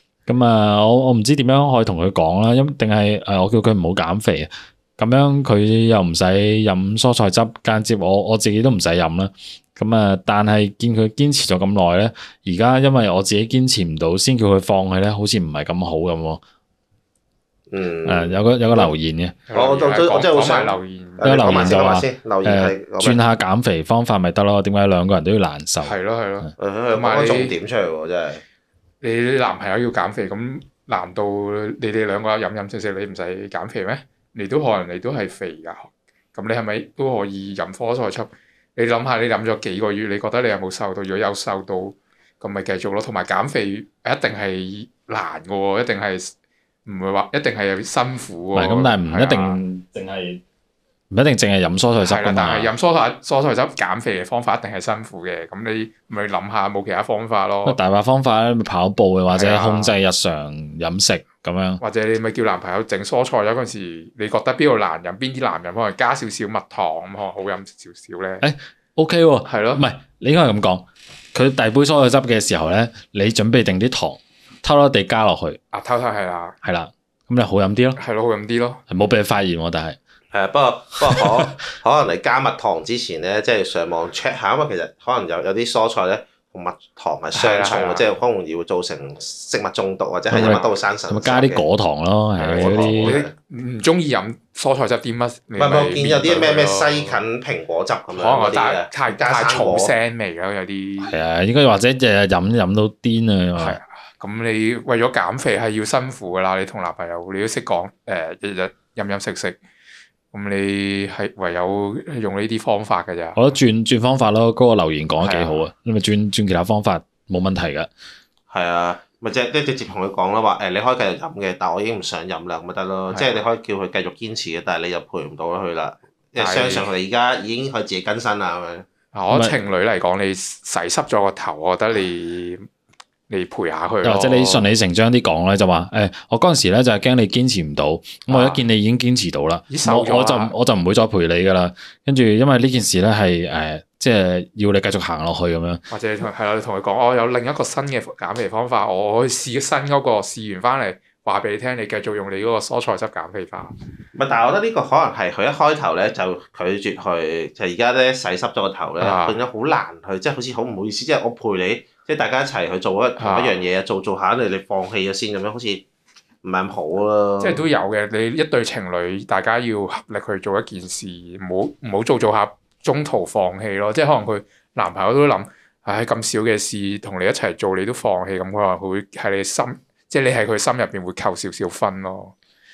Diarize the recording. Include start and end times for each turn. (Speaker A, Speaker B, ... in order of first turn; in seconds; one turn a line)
Speaker A: 0.3-16.4
Speaker B: 17.7-18.9
Speaker A: 18.0-19.3
Speaker C: 19.5-21.8
Speaker B: 19.5-23.2
Speaker A: 21.2-25.9
Speaker C: 25.8-27.5
Speaker B: 26.6-28.4
Speaker C: 29.0-46.3
Speaker C: 46.9-49.6
Speaker A: 48.5-50.4
Speaker A: 51.1-52.7
Speaker C: 52.0-57.8
Speaker A: 57.6-61.8
Speaker C: 59.3-59.9
Speaker C: 61.8-68.4
Speaker A: 68.4-75.6
Speaker C: 69.4-69.8
Speaker C: 75.7-76.5
Speaker A: 76.6-78.0
Speaker C: 78.0-78.8
Speaker A: 78.9-80.0
Speaker B: 80.3-91.6
Speaker C: 87.3-88.1
Speaker A: 90.3-93.2
Speaker C: 90.3-90.6
Speaker C: 92.4-97.2
Speaker B: 92.5-93.3
Speaker B: 95.6-99.9
Speaker C: 98.1-101.2
Speaker A: 101.0-103.8
Speaker C: 103.6-109.6
Speaker C: 110.3-113.4
Speaker A: 113.3-117.9
Speaker C: 115.2-115.7
Speaker B: 118.5-128.8
Speaker C: 123.1-123.4
Speaker C: 126.3-126.9
Speaker C: 129.1-132.7
Speaker A: 129.3-129.5
Speaker C: 133.3-134.7
Speaker A: 134.0-145.8
Speaker C: 138.3-138.6
Speaker C: 139.7-140.5
Speaker C: 145.9-153.7
Speaker B: 154.1-165.8
Speaker C: 159.0-159.4
Speaker C: 163.2-163.6
Speaker B: 166.4-167.6
Speaker C: 167.4-182.3